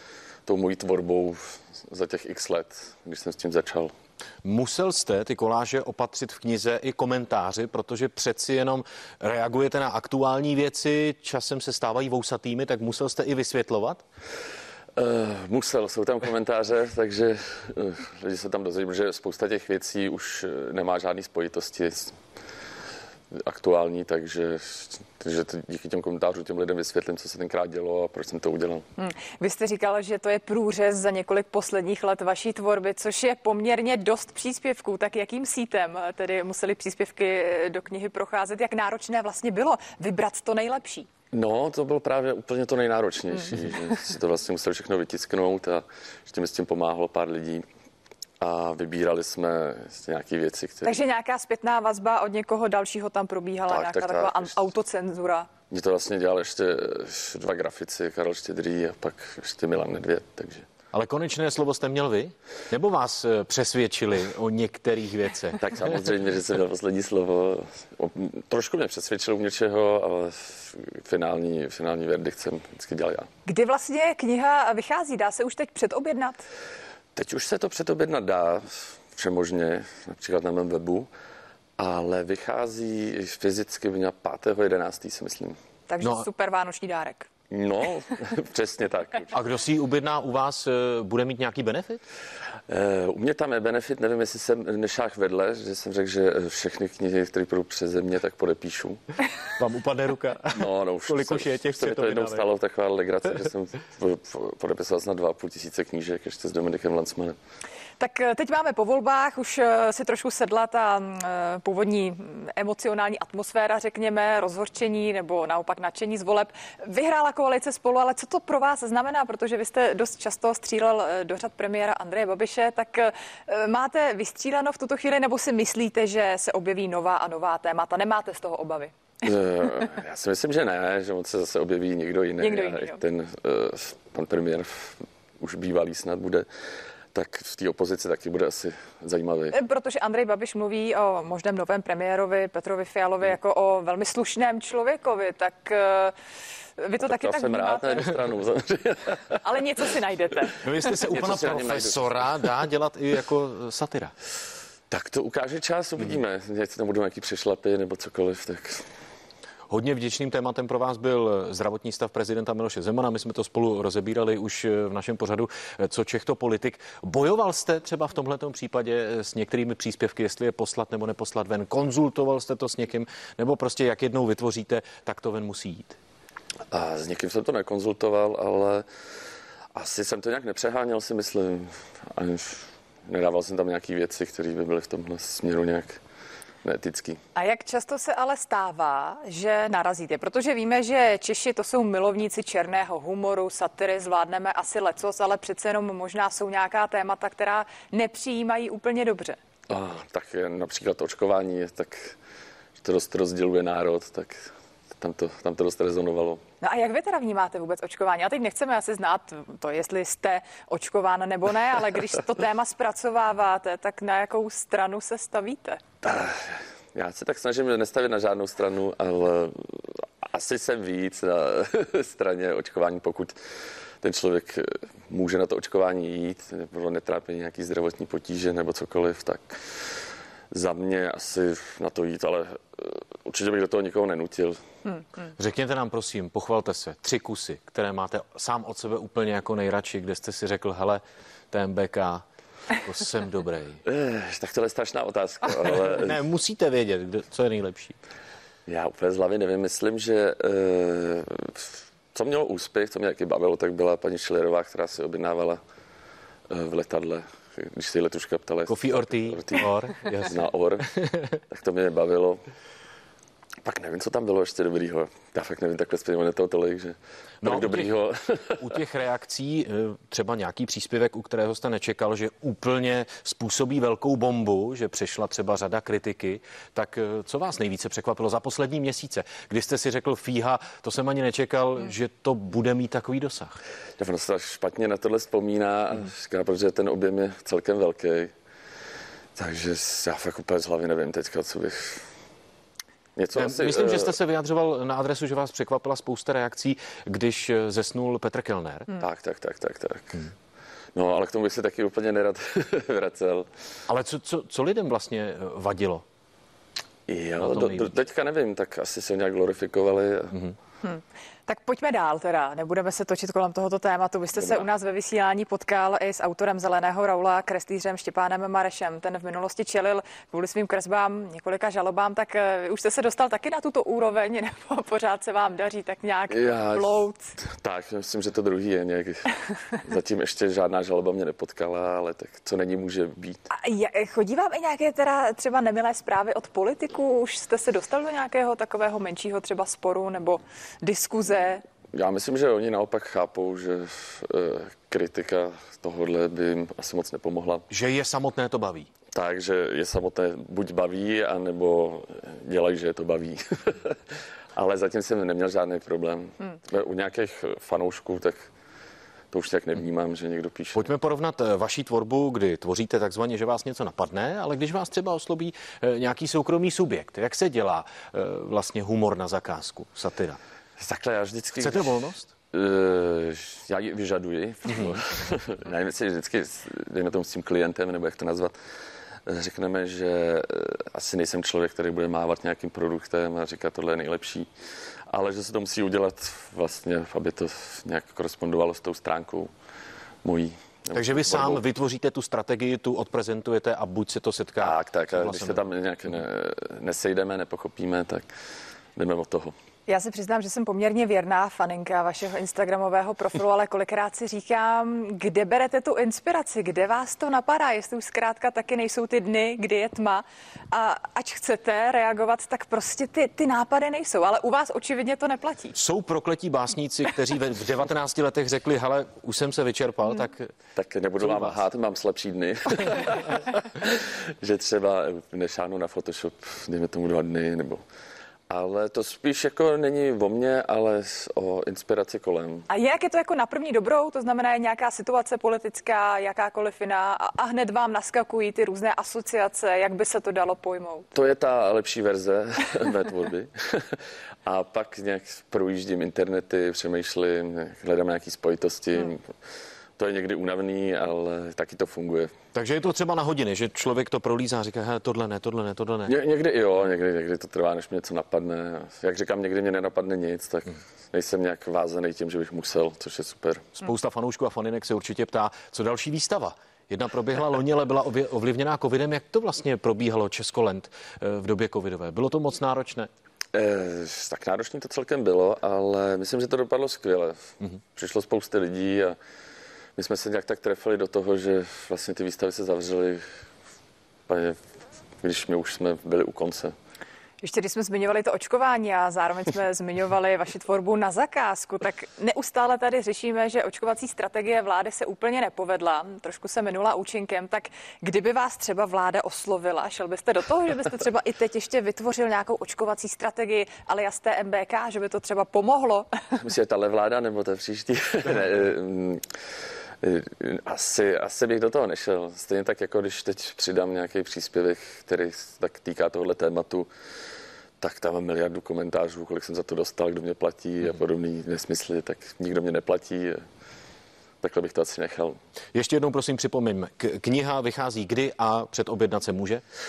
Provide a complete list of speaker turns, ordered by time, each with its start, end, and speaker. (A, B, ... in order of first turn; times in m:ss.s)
0:00.5-0:03.9 A
0:04.4-0:14.0 B
0:15.0-0:22.2 A
0:23.3-0:28.8 A
0:29.0-0:41.1 C
0:41.3-0:47.6 A
0:48.4-0:51.0 A
0:50.8-0:55.5 C
0:53.7-0:54.6 A
0:55.7-1:00.7 A
1:00.9-1:05.9 B
1:05.6-1:13.3 A
1:13.5-1:16.4 C
1:17.2-1:21.1 A
1:21.8-1:25.6 A
1:25.9-1:27.3 C
1:27.5-1:29.3 A
1:29.3-1:32.0 B
1:32.7-1:39.0 A
1:39.6-1:42.5 B
1:40.5-1:47.4 A
1:48.0-2:08.9 C
2:09.2-2:16.5 A
2:12.4-2:13.0 C
2:17.1-2:19.6 A
2:19.5-2:26.2 C
2:26.8-2:28.2 C
2:27.0-2:29.4 A
2:29.4-2:30.9 C
2:30.6-2:34.1 B
2:31.0-2:32.4 A
2:34.9-2:38.9 A
2:39.7-2:56.0 B
2:56.7-2:58.9 A
2:59.7-3:06.0 A
3:06.6-3:07.2 A
3:07.4-3:19.4 C
3:19.7-3:22.2 A
3:22.8-3:26.4 A
3:26.6-3:35.8 C
3:36.0-3:43.4 A
3:44.0-3:49.6 A
3:50.5-3:54.6 A
3:55.4-4:02.2 B
4:02.8-4:03.8 B
4:03.8-4:06.2 A
4:05.7-4:08.0 B
4:08.7-4:15.6 A
4:16.5-4:20.9 A
4:18.7-4:20.4 B
4:20.9-4:21.4 B
4:21.5-4:22.4 A
4:23.6-4:28.6 A
4:27.4-4:27.9 B
4:28.6-4:43.6 B
4:44.0-4:48.3 A
4:49.4-4:52.1 A
4:53.2-4:54.2 A
4:53.4-4:58.9 B
4:59.0-5:00.3 A
5:01.0-5:03.5 A
5:03.9-5:06.0 B
5:07.1-5:10.4 A
5:07.4-5:07.9 B
5:10.8-5:27.4 C
5:14.4-5:14.7 A
5:26.3-5:29.3 A
5:29.8-5:33.4 A
5:33.5-5:41.6 C
5:41.9-5:47.6 A
5:47.7-5:48.9 B
5:49.1-5:54.0 A
5:54.6-5:58.5 A
5:59.3-6:00.9 A
6:00.7-6:10.4 B
6:10.8-6:12.0 A
6:11.6-6:12.3 B
6:12.5-6:18.5 A
6:19.3-6:24.5 A
6:25.1-6:29.5 A
6:30.2-6:31.6 A
6:30.9-6:35.6 B
6:34.6-6:38.3 A
6:39.0-6:39.6 A
6:39.9-6:55.8 C
6:55.8-7:00.5 B
7:00.8-7:07.8 A
7:01.2-7:01.6 B
7:08.5-7:12.7 A
7:12.7-7:21.1 C
7:21.1-7:29.2 A
7:30.0-7:32.3 A
7:32.5-7:36.1 B
7:36.1-7:43.7 A
7:43.8-7:53.1 B
7:53.5-7:59.2 A
8:00.0-8:03.2 A
8:04.3-8:04.6 A
8:05.2-8:06.8 A
8:07.4-8:26.1 C
8:26.4-8:29.2 A
8:30.0-8:36.9 A
8:37.8-8:43.4 A
8:44.4-8:45.4 A
8:45.7-8:49.6 B